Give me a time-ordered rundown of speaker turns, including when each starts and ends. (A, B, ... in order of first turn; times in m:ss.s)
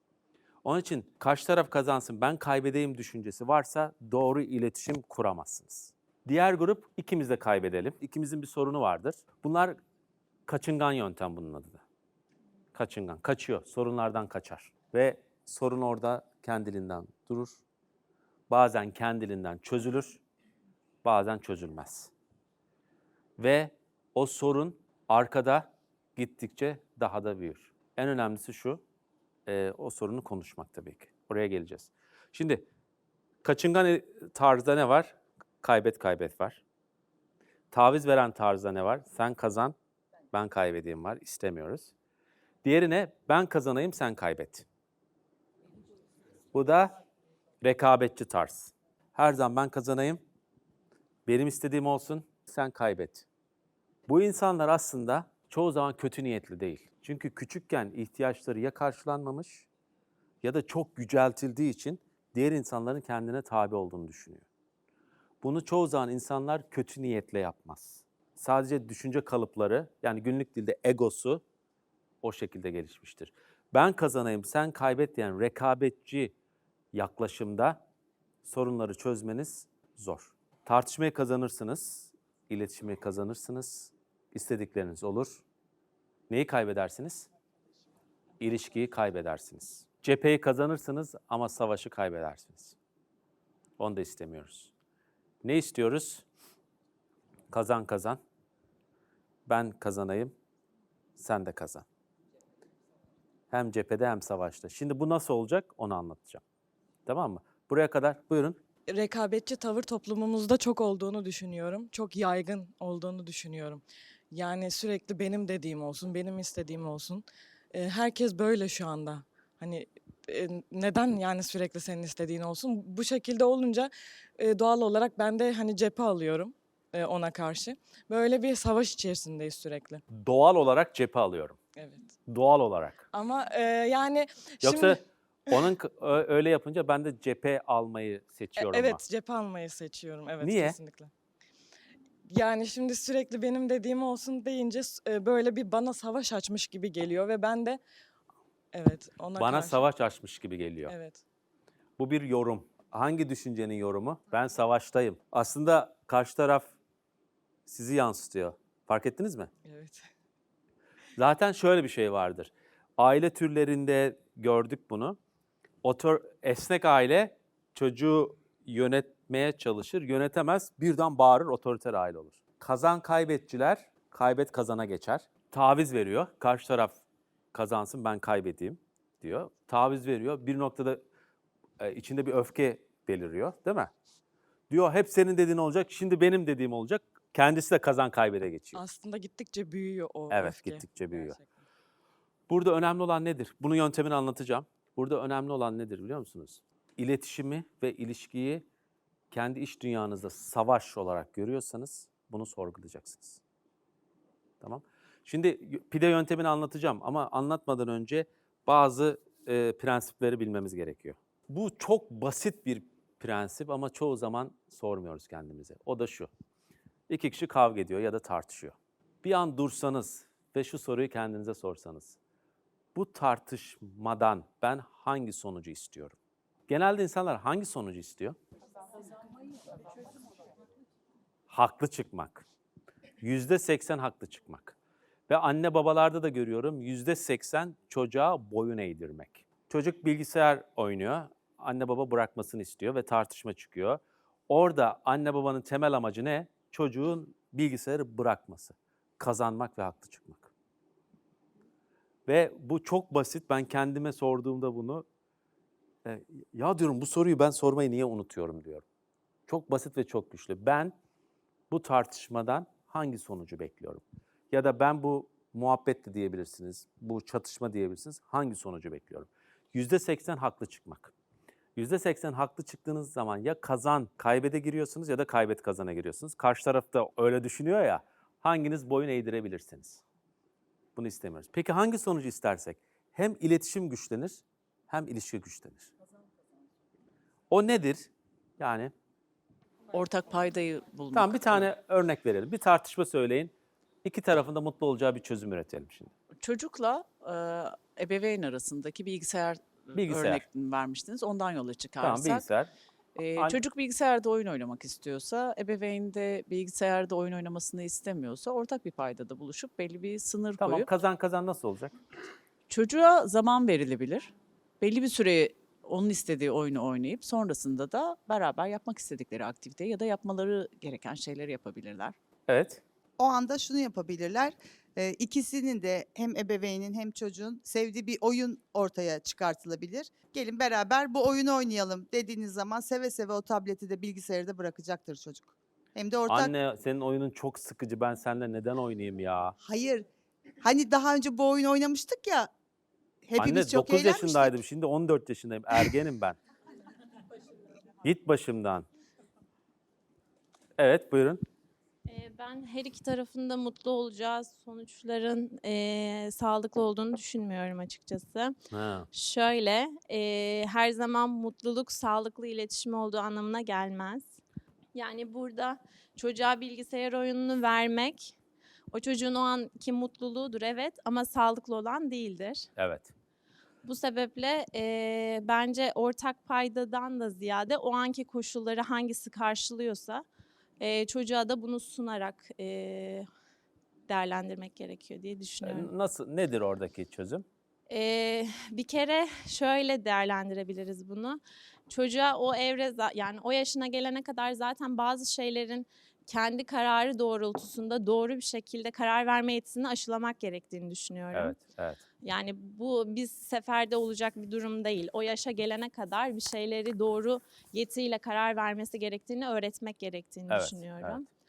0:00.6-0:09.8 A
0:10.5-0:11.8 A
0:12.7-0:17.6 A
0:18.5-0:20.2 A
0:21.0-0:22.1 A
0:23.4-0:28.8 A
0:29.4-0:32.6 A
0:33.4-0:36.6 A
0:37.7-0:39.7 A
0:40.3-0:41.9 A
0:42.6-0:44.6 A
0:46.5-0:46.9 A
0:47.6-0:50.2 A
0:51.3-0:53.2 A
0:54.1-0:59.7 A
1:00.4-1:04.4 A
1:05.4-1:11.4 A
1:12.2-1:16.3 A
1:16.9-1:17.8 A
1:18.4-1:25.4 A
1:26.3-1:27.3 A
1:28.4-1:32.8 A
1:33.8-1:34.7 A
1:35.4-1:36.2 A
1:37.5-1:38.2 A
1:39.5-1:40.3 A
1:41.2-1:41.8 A
1:43.5-1:46.4 A
1:47.0-1:48.6 A
1:48.9-2:10.0 B
2:10.1-2:11.6 A
2:11.8-2:12.1 B
2:12.3-2:13.0 A
2:13.1-2:15.0 B
2:14.6-2:19.0 A
2:18.6-2:21.1 B
2:20.4-2:20.8 A
2:22.3-2:27.8 B
2:28.7-2:29.8 B
2:29.3-2:30.9 A
2:30.8-2:31.2 B
2:32.0-2:36.7 A
2:37.7-2:39.5 A
2:39.6-2:40.0 B
2:41.2-2:45.2 A
2:45.8-2:57.0 A
2:57.5-3:01.0 A
3:01.8-3:03.9 A
3:04.7-3:08.8 A
3:08.7-3:11.6 B
3:10.3-3:11.4 A
3:12.5-3:18.6 A
3:19.3-3:23.4 A
3:24.6-3:36.3 A
3:37.1-3:42.2 A
3:42.9-3:46.2 A
3:46.7-3:48.4 A
3:51.5-3:52.4 A
3:53.2-3:54.8 A
3:55.3-4:10.5 A
4:12.3-4:15.0 A
4:16.0-4:18.8 A
4:19.5-4:20.9 A
4:21.7-4:31.1 A
4:31.8-4:40.0 A
4:41.0-4:45.9 A
4:47.5-4:48.9 A
4:49.9-4:51.7 C
4:51.1-4:53.5 A
4:54.0-4:56.1 A
4:56.4-5:02.5 C
4:59.9-5:00.4 A
5:02.0-5:02.7 A
5:03.1-5:10.9 C
5:10.6-5:11.9 A
5:12.7-5:22.2 C
5:22.5-5:22.8 A
5:23.2-5:36.5 D
5:36.3-5:39.6 A
5:39.6-5:40.0 D
5:40.6-5:42.5 D
5:43.2-5:44.5 D
5:43.4-5:46.4 A
5:48.0-5:48.8 A
5:50.8-5:51.4 A
5:52.0-5:58.5 E
5:58.7-5:59.1 A
5:59.1-6:04.3 E
6:04.9-6:08.4 E
6:08.9-6:12.7 E
6:12.8-6:13.1 A
6:13.8-6:20.2 E
6:20.8-6:23.2 E
6:24.1-6:25.9 E
6:25.6-6:27.4 A
6:27.9-6:41.6 E
6:41.3-6:42.0 A
6:42.2-6:51.2 E
6:50.5-6:51.2 A